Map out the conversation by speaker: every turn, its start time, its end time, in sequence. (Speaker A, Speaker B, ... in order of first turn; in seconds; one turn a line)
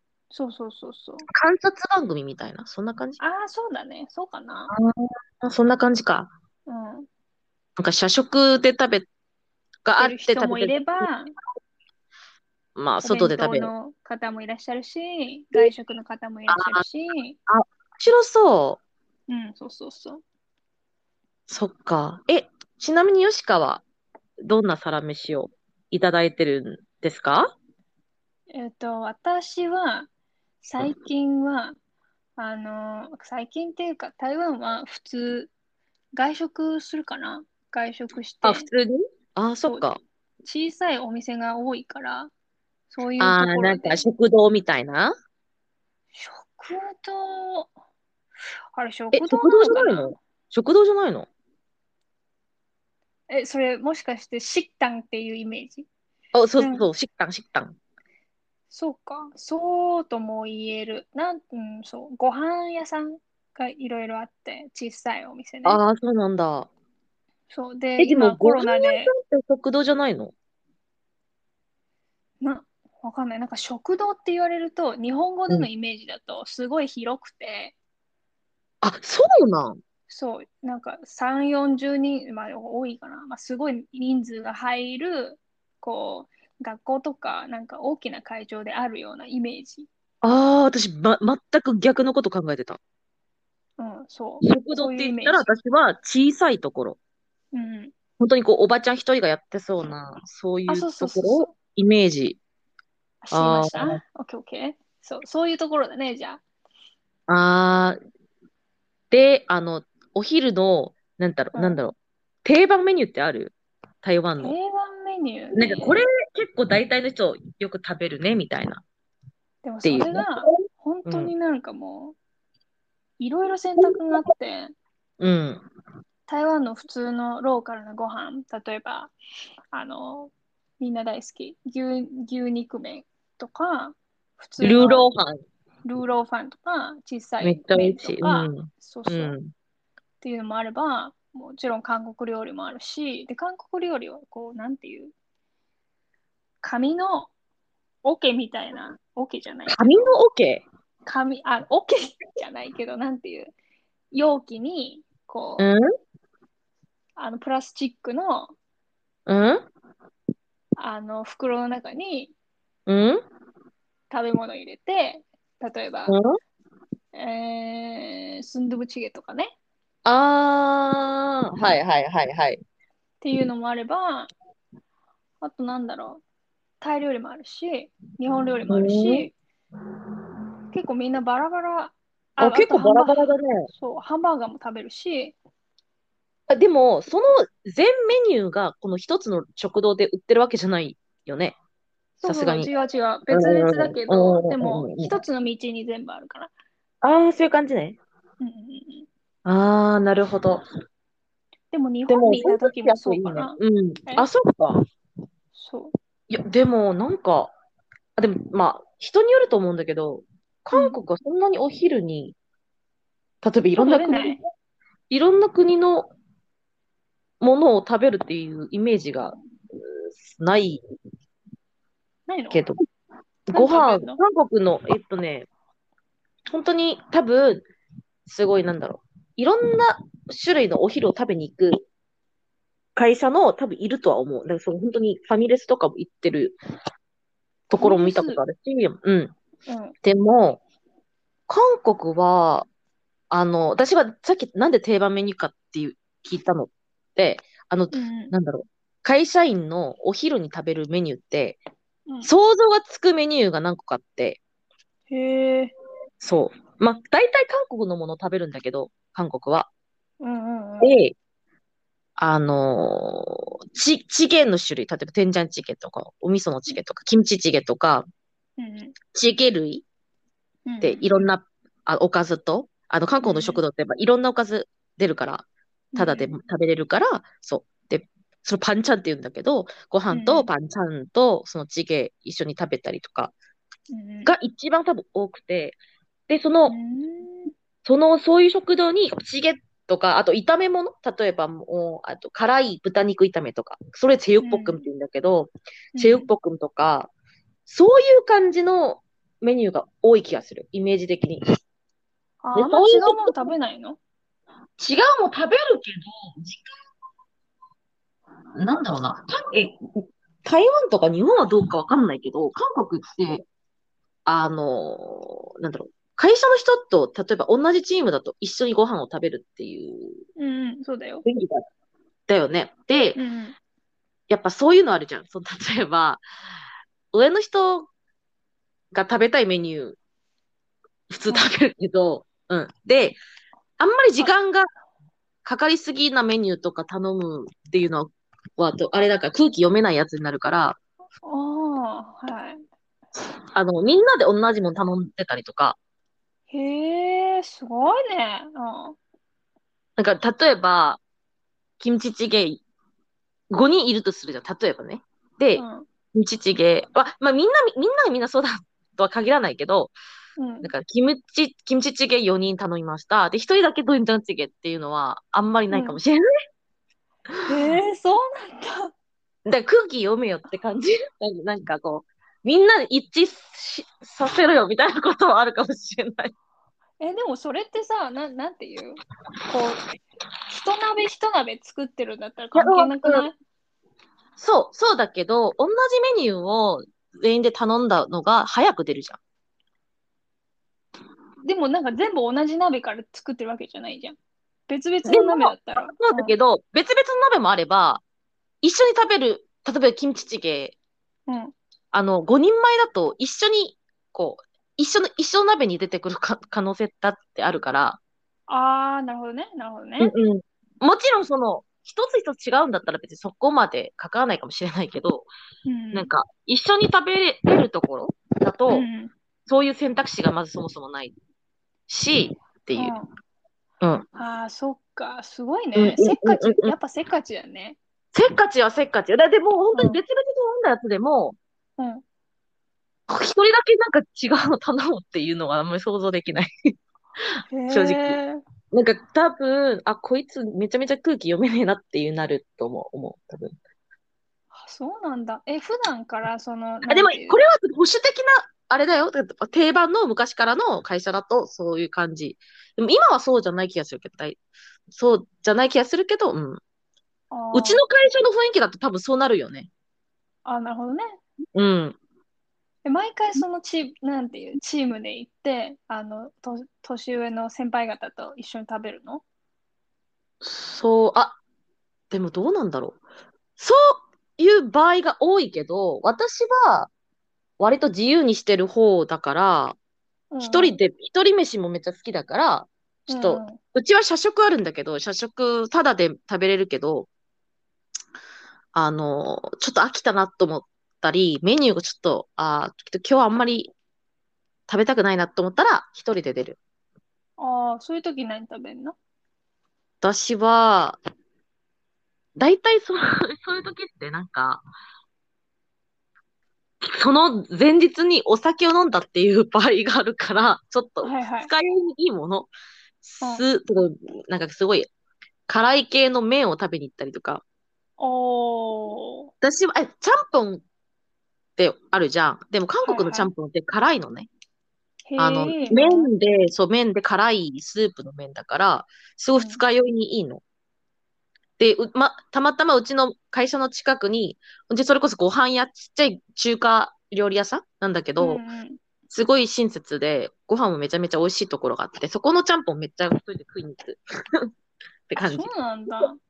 Speaker A: 0.3-1.3
Speaker B: 1.3-3.2
Speaker A: 3.2-4.7
Speaker B: 4.7-6.3
Speaker A: 6.7-7.1
Speaker B: 7.8-9.1
Speaker B: 9.8-11.1
Speaker A: 10.0-11.3
Speaker B: 12.8-13.7
Speaker A: 13.0-17.4
Speaker B: 16.5-16.8
Speaker B: 17.5-18.8
Speaker A: 19.3-20.2
Speaker B: 21.5-23.8
Speaker B: 24.4-27.5
Speaker A: 28.5-30.1
Speaker A: 30.6-31.8
Speaker A: 32.4-35.5
Speaker A: 36.1-38.7
Speaker B: 38.4-40.0
Speaker A: 40.4-42.3
Speaker A: 42.9-44.1
Speaker B: 43.2-45.1
Speaker A: 46.1-47.7
Speaker A: 48.7-50.2
Speaker B: 49.1-51.3
Speaker A: 53.3-55.9
Speaker B: 56.3-57.8
Speaker A: 56.6-56.9
Speaker A: 58.7-65.8
Speaker B: 65.6-66.7
Speaker A: 67.5-69.1
Speaker B: 68.0-70.3
Speaker A: 72.4-77.7
Speaker B: 78.8-79.8
Speaker A: 80.1-89.9
Speaker B: 90.2-92.8
Speaker A: 93.8-95.5
Speaker B: 94.4-97.0
Speaker A: 97.5-97.9
Speaker B: 98.2-102.4
Speaker A: 100.7-101.5
Speaker A: 103.2-106.4
Speaker B: 103.3-104.0
Speaker B: 107.3-108.0
Speaker B: 109.1-114.5
Speaker A: 111.5-111.8
Speaker A: 114.4-116.0
Speaker B: 115.5-118.8
Speaker A: 119.6-122.2
Speaker B: 119.8-120.5
Speaker B: 121.0-121.3
Speaker A: 123.2-124.7
Speaker B: 125.2-125.7
Speaker A: 126.3-129.1
Speaker A: 129.7-135.1
Speaker B: 134.6-135.3
Speaker A: 135.8-139.4
Speaker B: 137.4-139.5
Speaker A: 140.2-145.1
Speaker A: 146.6-147.3
Speaker A: 148.0-149.8
Speaker B: 149.7-150.6
Speaker A: 151.1-153.5
Speaker A: 154.1-155.7
Speaker B: 155.6-155.8
Speaker A: 157.2-158.5
Speaker B: 159.3-159.6
Speaker A: 160.8-162.3
Speaker B: 162.9-163.2
Speaker A: 164.1-166.1
Speaker B: 166.1-166.3
Speaker A: 167.1-169.5
Speaker B: 170.0-172.6
Speaker A: 173.2-174.3
Speaker A: 175.4-176.2
Speaker A: 176.8-179.3
Speaker B: 178.7-179.3
Speaker A: 180.7-185.3
Speaker B: 182.4-183.7
Speaker B: 186.5-191.6
Speaker A: 192.2-196.5
Speaker B: 192.2-192.7
Speaker B: 193.3-195.2
Speaker B: 197.0-198.0
Speaker A: 198.4-199.1
Speaker B: 199.4-200.6
Speaker A: 201.7-204.3
Speaker B: 202.1-204.8
Speaker A: 205.5-205.9
Speaker B: 206.3-207.5
Speaker B: 208.2-212.3
Speaker A: 210.7-211.0
Speaker B: 213.4-214.4
Speaker A: 213.8-214.4
Speaker B: 215.1-216.1
Speaker B: 217.4-220.8
Speaker A: 222.3-222.7
Speaker B: 222.5-222.8
Speaker B: 223.5-225.5
Speaker A: 223.5-224.2
Speaker B: 226.5-227.6
Speaker B: 228.2-231.8
Speaker B: 232.9-236.5
Speaker B: 237.7-239.3
Speaker A: 237.8-238.4
Speaker A: 239.7-239.9
Speaker B: 240.0-240.6
Speaker B: 241.5-242.7
Speaker B: 243.3-251.6
Speaker A: 247.9-248.3
Speaker B: 252.2-254.4
Speaker A: 255.1-255.7
Speaker B: 256.2-259.7
Speaker A: 260.2-260.9
Speaker B: 260.8-261.1
Speaker B: 262.2-268.0
Speaker A: 268.6-268.9
Speaker B: 269.1-269.8
Speaker A: 270.6-271.1
Speaker B: 270.8-275.4
Speaker A: 273.2-273.6
Speaker A: 275.9-276.3
Speaker B: 275.9-283.3
Speaker A: 280.1-280.5
Speaker A: 283.9-284.3
Speaker B: 284.2-285.8
Speaker B: 286.3-286.8
Speaker A: 286.7-287.5
Speaker B: 287.8-297.1
Speaker A: 294.4-294.8
Speaker A: 295.9-296.3
Speaker B: 297.7-301.6
Speaker A: 302.4-304.0
Speaker B: 302.5-303.5
Speaker B: 304.8-306.7
Speaker B: 308.6-313.4
Speaker B: 314.2-320.2
Speaker A: 320.4-321.2
Speaker B: 321.2-321.6
Speaker B: 322.3-323.2
Speaker A: 323.1-323.6
Speaker B: 324.3-326.2
Speaker B: 327.1-327.9
Speaker B: 328.9-330.0
Speaker B: 331.1-333.2
Speaker B: 333.8-334.7
Speaker B: 335.4-340.8
Speaker A: 341.2-342.6
Speaker B: 343.5-345.8
Speaker A: 346.5-349.0
Speaker B: 350.0-351.0
Speaker B: 351.8-352.6
Speaker B: 353.5-359.9
Speaker A: 355.6-355.9
Speaker A: 360.4-360.7
Speaker B: 360.6-366.2
Speaker A: 365.7-366.0
Speaker A: 367.4-368.9
Speaker B: 369.4-376.3
Speaker A: 377.0-379.8
Speaker A: 380.5-383.4
Speaker B: 382.5-383.3
Speaker B: 384.4-389.2
Speaker A: 391.4-394.2
Speaker A: 394.7-396.3
Speaker B: 395.1-398.0
Speaker B: 398.6-400.7
Speaker A: 401.3-401.5
Speaker B: 401.9-408.0
Speaker A: 408.5-410.1
Speaker B: 410.0-415.3
Speaker A: 415.6-416.1
Speaker B: 415.9-418.9
Speaker A: 418.7-419.1
Speaker B: 419.5-421.1
Speaker B: 421.9-422.9
Speaker A: 422.8-423.1
Speaker B: 423.8-424.1
Speaker A: 424.1-427.8
Speaker B: 425.8-426.7
Speaker B: 428.1-431.4
Speaker A: 429.7-430.0
Speaker A: 431.8-432.0
Speaker B: 433.1-436.5
Speaker A: 437.5-438.4
Speaker B: 437.7-438.2
Speaker B: 438.7-443.6
Speaker A: 444.5-447.4
Speaker B: 446.9-454.4
Speaker B: 454.9-456.6
Speaker A: 457.3-457.8
Speaker B: 457.5-459.7
Speaker A: 460.4-461.2
Speaker B: 461.5-462.0
Speaker A: 462.8-469.2
Speaker B: 470.4-471.4
Speaker B: 472.1-473.0
Speaker B: 473.6-476.9
Speaker B: 477.6-479.8
Speaker A: 480.3-480.8
Speaker B: 480.4-487.1
Speaker A: 483.1-483.6
Speaker B: 488.7-493.7
Speaker B: 494.7-496.6
Speaker A: 497.4-498.9
Speaker B: 500.0-501.0
Speaker B: 502.4-504.6
Speaker B: 506.8-512.5
Speaker A: 511.0-511.5
Speaker B: 513.0-514.9
Speaker B: 515.5-517.4
Speaker A: 518.0-519.3
Speaker B: 519.4-520.6
Speaker B: 521.6-524.3
Speaker A: 522.8-523.3
Speaker A: 525.1-526.1
Speaker B: 525.2-530.4
Speaker A: 529.3-529.6
Speaker B: 531.6-538.4
Speaker A: 538.2-538.8
Speaker B: 539.1-544.5
Speaker B: 545.1-545.5
Speaker A: 545.2-546.2